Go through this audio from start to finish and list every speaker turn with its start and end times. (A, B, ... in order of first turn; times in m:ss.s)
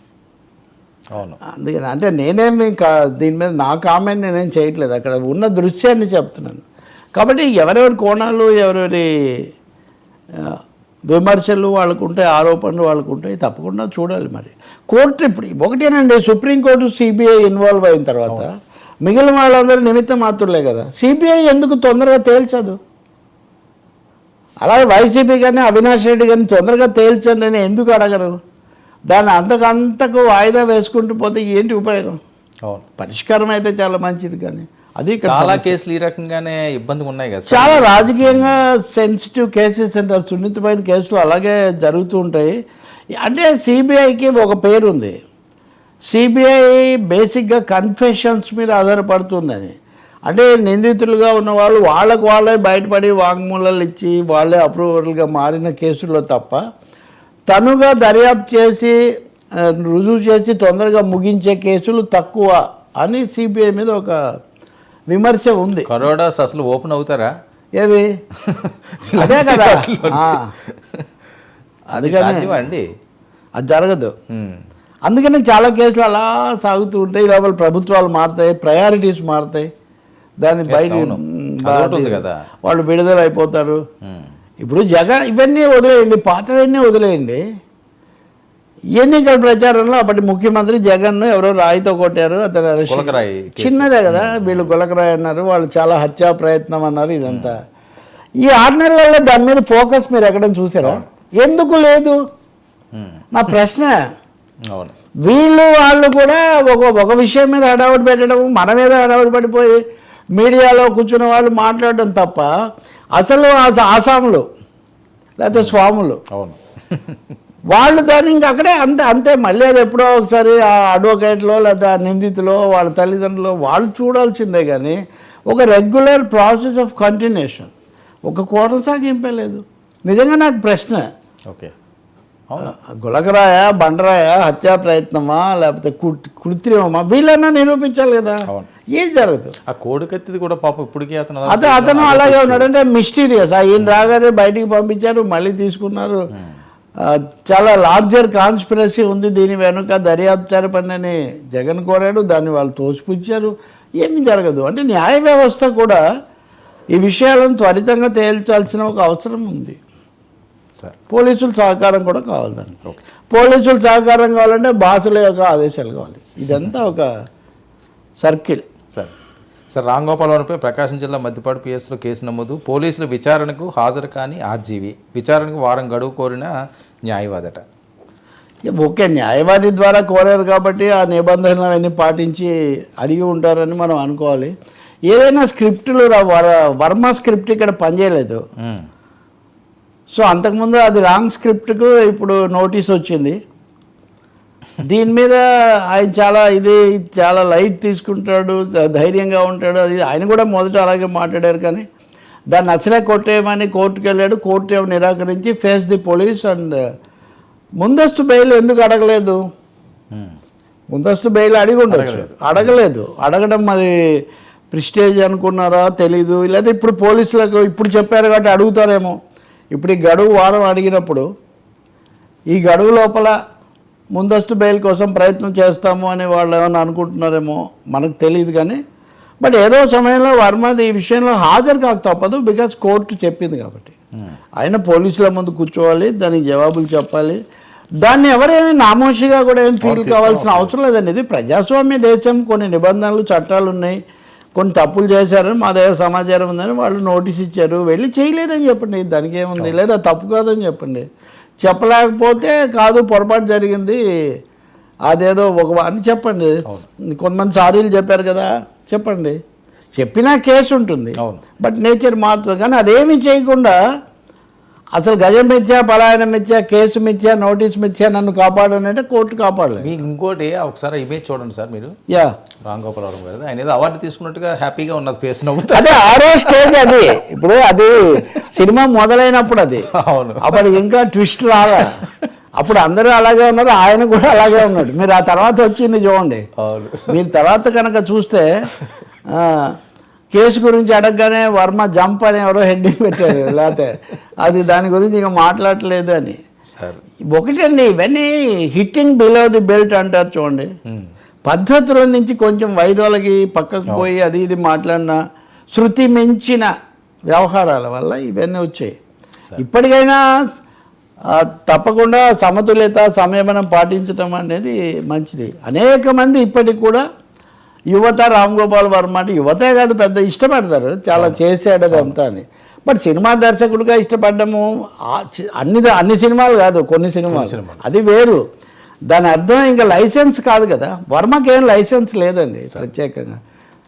0:01.5-0:06.6 A
0:07.2-0:09.5 A
0:10.4-0:22.8 A
0:24.6-0:28.4 A
0:29.1-0:32.2 A
0:33.0-0:35.7 A
0:35.2-0:38.6 B
0:37.5-0:42.5 A
0:43.2-0:45.1 A
0:46.1-0:49.7 A
0:50.3-0:56.6 A
0:57.5-0:59.0 A
0:59.6-1:04.2 A
1:05.1-1:05.9 A
1:05.9-1:07.3 B
1:07.8-1:08.0 A
1:08.4-1:11.0 B
1:09.1-1:10.5 A
1:11.9-1:12.8 B
1:11.9-1:12.6 A
1:13.6-1:14.1 A
1:14.3-1:14.6 B
1:15.1-1:19.7 A
1:20.4-1:23.8 A
1:20.6-1:22.4 B
1:24.6-1:27.4 A
1:29.0-1:37.6 A
1:32.9-1:34.7 B
1:37.2-1:37.5 B
1:38.4-1:42.2 A
1:43.0-1:43.2 B
1:43.3-1:44.0 A
1:45.2-1:49.8 A
1:50.4-1:52.5 A
1:53.2-1:54.4 A
1:55.4-1:56.2 A
1:56.3-1:57.2 B
1:57.7-2:05.0 A
2:05.5-2:07.7 A
2:08.3-2:11.0 A
2:12.6-2:18.4 A
2:18.9-2:19.5 A
2:19.7-2:22.7 B
2:21.5-2:26.2 A
2:23.8-2:24.1 B
2:27.0-2:36.0 A
2:36.9-2:39.8 A
2:41.1-2:47.1 A
2:48.2-2:48.6 A
2:49.7-2:56.5 B
2:57.1-2:57.6 B
2:58.7-3:04.5 A
3:05.1-3:08.4 A
3:10.1-3:13.4 A
3:14.8-3:21.8 A
3:22.5-3:26.8 A
3:27.8-3:29.4 A
3:30.9-3:33.9 A
3:31.9-3:32.7 B
3:34.7-3:39.2 A
3:39.7-3:41.3 A
3:42.5-3:43.3 A
3:44.1-3:48.8 A
3:49.4-3:53.9 A
3:54.6-3:57.4 A
3:58.0-4:04.0 A
3:59.8-4:00.7 B
4:04.5-4:11.0 A
4:11.6-4:14.0 A
4:15.1-4:19.4 A
4:19.9-4:23.8 A
4:25.0-4:30.0 A
4:29.8-4:31.9 B
4:32.7-4:37.0 B
4:35.7-4:39.9 A
4:40.0-4:40.6 B
4:40.4-4:41.9 A
4:41.7-4:42.2 B
4:42.6-4:46.4 A
4:46.6-4:47.1 B
4:47.1-4:48.5 A
4:49.3-4:49.7 A
4:50.3-4:56.4 A
4:56.7-4:57.0 B
4:57.3-5:00.7 A
5:01.5-5:05.2 A
5:05.7-5:06.7 A
5:07.3-5:08.9 A
5:09.6-5:10.2 A
5:11.3-5:17.0 A
5:17.9-5:28.4 A
5:21.2-5:22.2 B
5:27.3-5:27.8 B
5:29.1-5:33.4 A